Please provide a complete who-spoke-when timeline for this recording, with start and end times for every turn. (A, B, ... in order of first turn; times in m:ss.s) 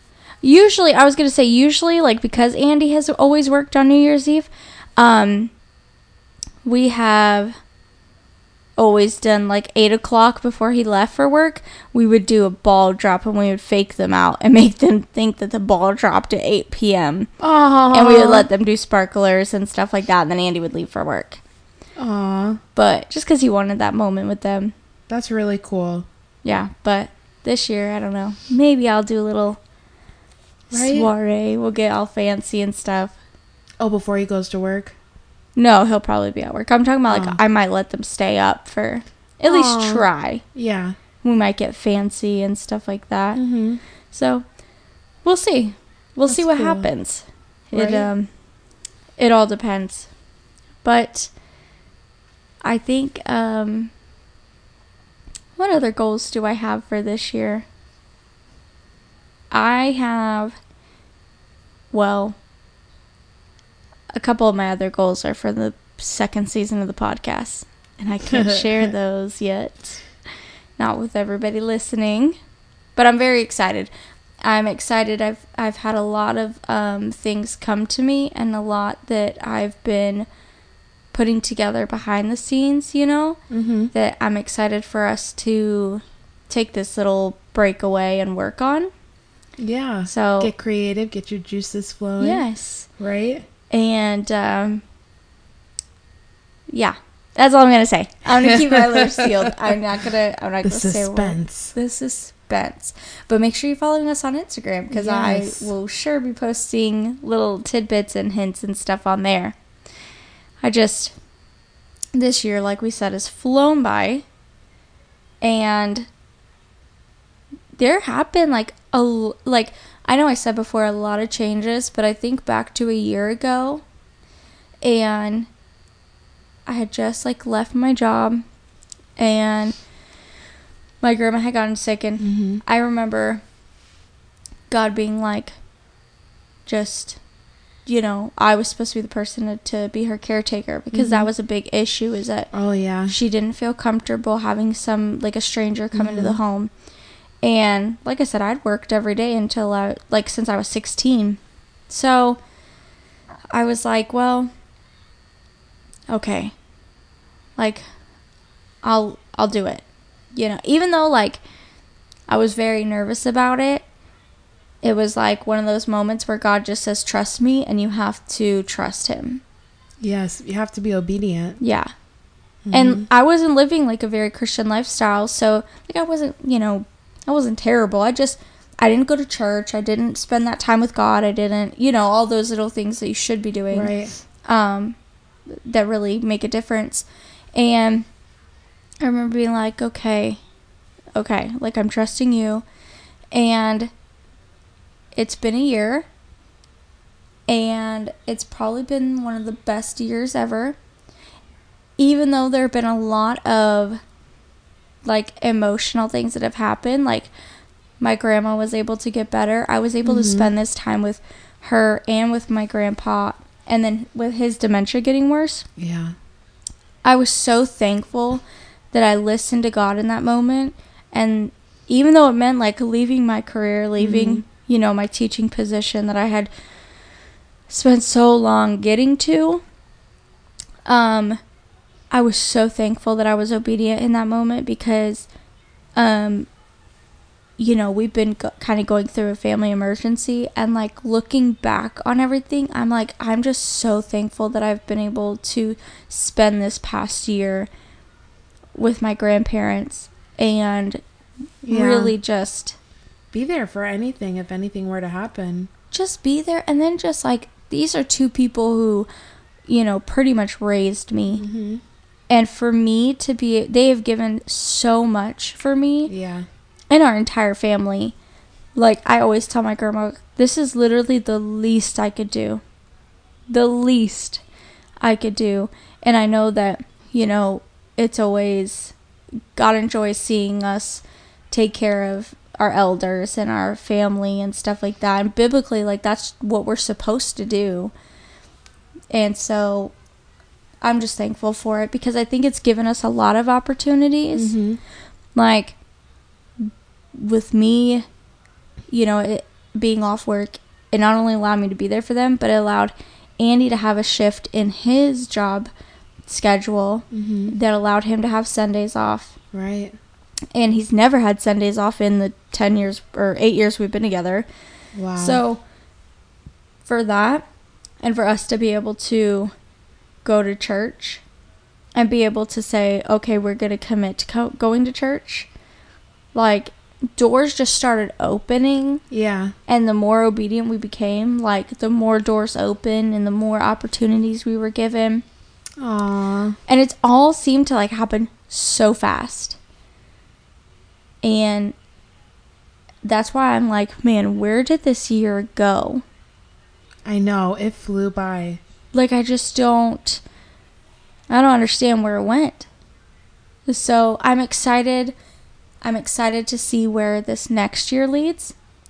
0:00.4-0:05.5 A
0:06.6-0:07.6 A
0:08.8-0:17.3 A
0:17.4-0:18.5 B
0:17.9-0:21.4 A
0:22.0-0:22.6 B
0:22.8-0:24.7 A
0:25.1-0:26.1 B
0:26.4-0:29.6 A
0:30.7-0:31.1 B
0:30.7-0:33.2 A
0:33.8-0:35.0 B
0:35.6-0:40.4 A
0:37.1-0:37.4 B
0:39.4-0:41.0 B
0:41.2-0:43.4 A
0:43.4-0:43.8 B
0:44.1-0:44.4 A
0:45.2-0:48.3 A
0:46.3-0:46.9 B
0:47.7-0:48.1 B
0:49.2-0:50.1 A
0:50.8-0:51.3 A
0:52.6-0:53.9 A
0:55.6-0:57.6 A
0:59.5-1:00.6 A
1:01.9-1:02.4 A
1:04.1-1:10.0 A
1:08.3-1:08.9 B
1:10.8-1:12.4 A
1:13.0-1:13.9 A
1:14.4-1:20.3 A
1:21.1-1:23.4 A
1:23.5-1:23.9 B
1:23.9-1:28.9 A
1:29.6-1:32.4 B
1:30.1-1:30.5 A
1:32.2-1:32.9 A
1:33.0-1:33.5 B
1:33.7-1:34.8 A
1:36.7-1:49.6 A
1:38.4-1:39.5 B
1:40.6-1:41.7 B
1:44.9-1:45.7 B
1:50.6-1:51.1 A
1:52.1-1:54.2 A
1:55.4-1:56.1 A
1:57.8-2:03.8 A
2:04.8-2:05.5 A
2:06.7-2:08.4 A
2:09.2-2:09.8 A
2:11.0-2:13.4 A
2:12.2-2:12.6 B
2:14.7-2:15.5 A
2:16.7-2:17.2 A
2:17.9-2:22.5 A
2:20.9-2:21.3 B
2:22.5-2:23.1 B
2:23.1-2:26.7 A
2:26.0-2:26.4 B
2:27.4-2:32.4 A
2:33.5-2:34.5 A
2:36.1-2:36.5 A
2:37.6-2:37.8 A
2:38.8-2:41.4 A
2:42.3-2:43.8 A
2:44.8-2:49.4 A
2:50.0-2:51.6 B
2:51.6-2:51.9 A
2:52.6-2:53.1 B
2:52.7-3:03.9 A
3:03.7-3:04.1 B
3:04.5-3:05.0 A
3:05.5-3:08.1 A
3:09.0-3:10.4 A
3:11.2-3:12.6 A
3:13.3-3:13.9 A
3:15.2-3:16.1 A
3:17.5-3:20.8 A
3:22.0-3:24.0 A
3:25.0-3:27.3 A
3:28.0-3:35.7 A
3:30.0-3:30.5 B
3:35.8-3:36.1 B
3:37.0-3:46.5 A
3:44.0-3:44.4 B
3:47.7-3:49.6 A
3:50.9-3:51.4 A
3:52.1-3:55.3 A
3:56.0-3:56.5 A
3:57.6-4:07.7 A
4:08.8-4:11.0 A
4:11.6-4:12.2 B
4:11.7-4:12.8 A
4:13.3-4:15.7 B
4:15.9-4:19.1 A
4:19.7-4:21.4 A
4:21.4-4:21.8 B
4:22.3-4:26.1 A
4:26.1-4:26.5 B
4:26.9-4:28.2 A
4:28.8-4:32.6 A
4:33.5-4:34.4 A
4:35.0-4:39.0 A
4:39.6-4:47.9 A
4:49.1-4:49.9 A
4:50.8-4:54.5 A
4:54.3-4:54.8 B
4:55.4-4:55.8 A
4:56.6-4:58.0 A
4:58.9-5:05.7 A
5:06.3-5:09.4 A
5:07.1-5:07.6 B
5:09.5-5:10.0 B
5:10.6-5:14.5 A
5:15.0-5:15.4 B
5:15.2-5:15.6 A
5:16.8-5:17.5 A
5:18.0-5:19.5 A
5:20.2-5:21.2 A
5:22.0-5:25.5 A
5:26.3-5:29.0 A
5:29.1-5:29.5 B
5:29.7-5:35.2 A
5:35.8-5:36.6 B
5:36.7-5:39.6 A
5:41.2-5:41.8 A
5:43.0-5:46.0 A
5:47.1-5:48.6 B
5:48.9-5:50.2 A
5:51.3-5:52.7 A
5:53.7-5:55.2 A
5:55.8-5:58.6 A